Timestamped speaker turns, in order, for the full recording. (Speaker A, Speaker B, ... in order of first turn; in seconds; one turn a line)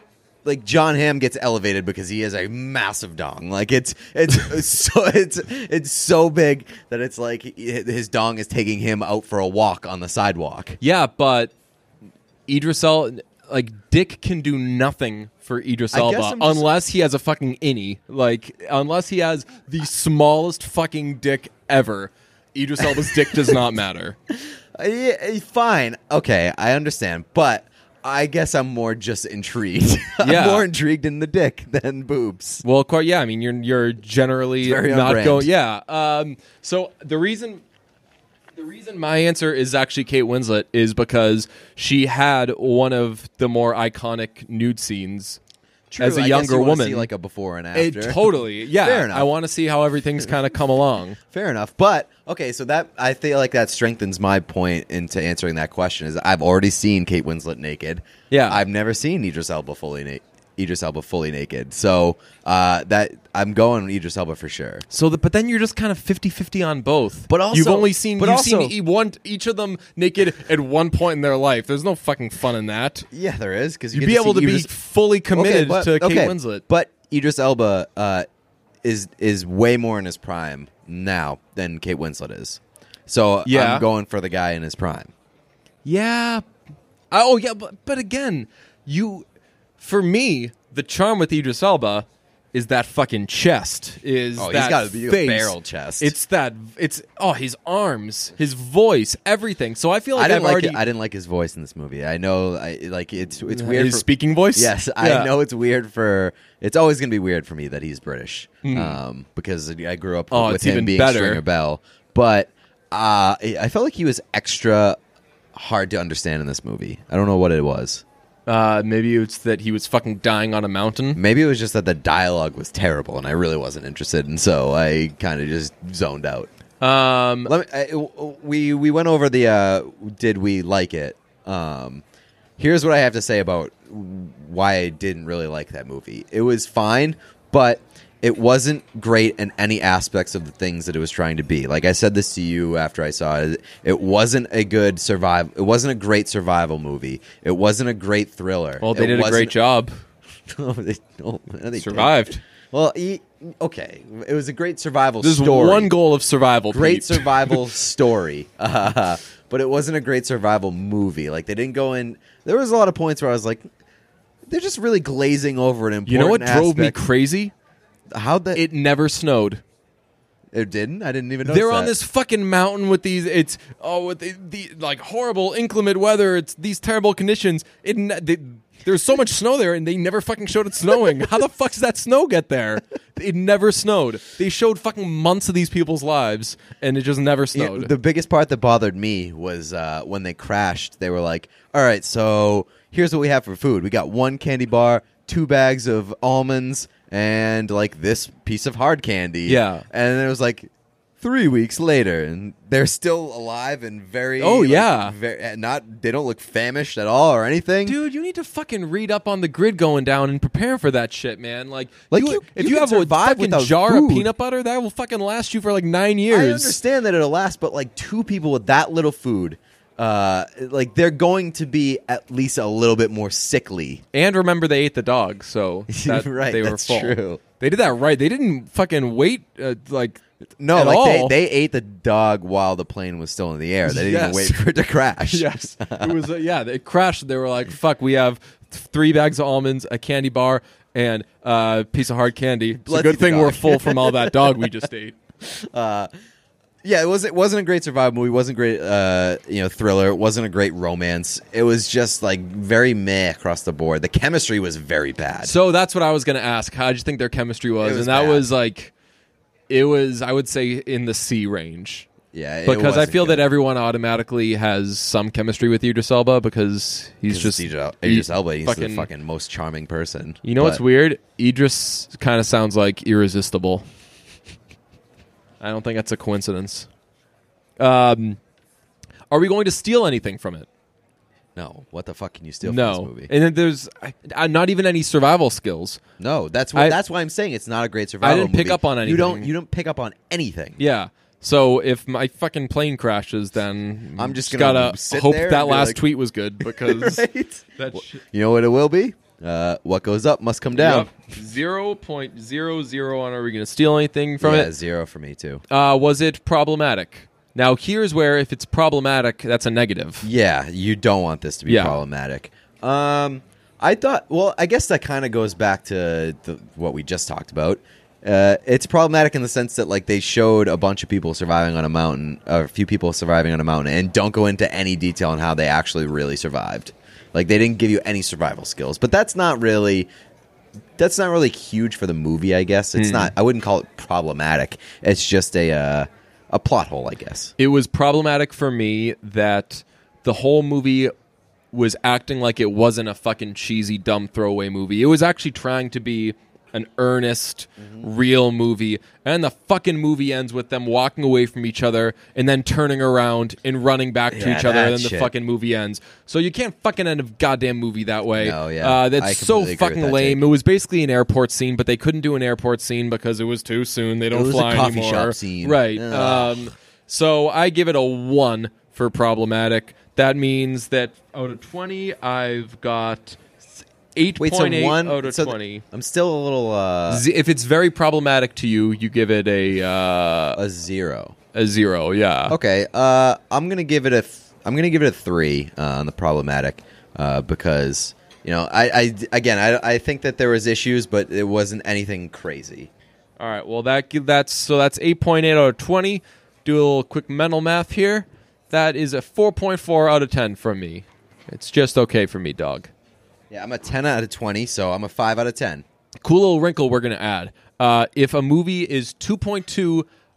Speaker A: 0.4-10.8
Speaker B: 10.8-11.5
Speaker B: 12.5-24.2
Speaker A: 15.9-16.7
Speaker A: 22.9-23.6
Speaker A: 24.3-32.6
Speaker B: 30.2-30.6
Speaker B: 32.6-37.6
Speaker A: 34.6-35.5
Speaker B: 38.5-45.4
Speaker A: 45.9-48.2
Speaker B: 46.0-47.1
Speaker B: 47.7-51.2
Speaker A: 48.8-49.3
Speaker A: 51.3-64.8
Speaker B: 58.3-58.6
Speaker B: 64.9-73.1
Speaker A: 67.3-68.7
Speaker A: 73.1-74.7
Speaker B: 73.9-76.6
Speaker A: 75.3-78.2
Speaker A: 78.8-85.1
Speaker B: 83.5-83.8
Speaker B: 85.8-86.4
Speaker B: 87.1-89.2
Speaker B: 89.8-100.8
Speaker A: 94.4-96.1
Speaker A: 100.2-115.0
Speaker B: 103.5-105.3
Speaker B: 108.6-109.0
Speaker B: 110.3-111.4
Speaker A: 115.5-118.0
Speaker B: 118.5-121.2
Speaker A: 121.1-126.5
Speaker B: 126.8-127.5
Speaker A: 127.5-132.0
Speaker A: 132.6-149.5
Speaker B: 148.8-149.9
Speaker A: 150.5-155.9
Speaker B: 151.8-152.4
Speaker B: 155.2-157.6
Speaker A: 156.7-163.6
Speaker A: 164.5-167.0
Speaker B: 166.1-167.5
Speaker A: 168.1-168.6
Speaker B: 168.5-169.6
Speaker A: 170.5-171.9
Speaker B: 171.4-187.9
Speaker A: 187.5-208.0
Speaker B: 199.5-199.8
Speaker B: 204.4-205.1
Speaker B: 207.8-216.8
Speaker A: 212.1-214.3
Speaker A: 216.3-224.0
Speaker B: 224.1-231.3
Speaker A: 225.9-227.4
Speaker A: 230.6-236.2
Speaker B: 233.8-234.6
Speaker B: 235.3-245.2
Speaker A: 242.8-244.7
Speaker A: 245.4-246.1
Speaker A: 246.8-255.5
Speaker B: 255.4-258.9
Speaker A: 257.8-258.5
Speaker B: 259.7-262.1
Speaker A: 262.3-263.4
Speaker B: 262.6-269.1
Speaker A: 267.3-270.8
Speaker B: 270.4-273.9
Speaker B: 275.6-276.9
Speaker B: 277.8-278.4
Speaker B: 279.3-280.7
Speaker A: 281.6-283.3
Speaker B: 282.6-286.0
Speaker A: 286.2-290.8
Speaker B: 288.2-289.5
Speaker B: 290.8-297.2
Speaker A: 294.2-296.0
Speaker A: 296.6-301.1
Speaker B: 297.8-298.2
Speaker B: 300.7-304.7
Speaker A: 304.4-305.6
Speaker B: 305.7-310.3
Speaker A: 310.2-330.1
Speaker B: 311.7-312.0
Speaker A: 331.0-337.5
Speaker B: 332.9-333.3
Speaker B: 337.6-341.1
Speaker B: 341.7-373.5
Speaker A: 354.3-355.3
Speaker A: 358.4-360.4
Speaker A: 364.3-366.7
Speaker B: 374.1-375.8
Speaker A: 374.4-377.2
Speaker B: 377.1-380.6
Speaker A: 380.6-381.3
Speaker B: 381.5-382.5
Speaker A: 382.5-392.9
Speaker B: 393.4-402.9
Speaker A: 403.5-405.8
Speaker B: 406.2-410.1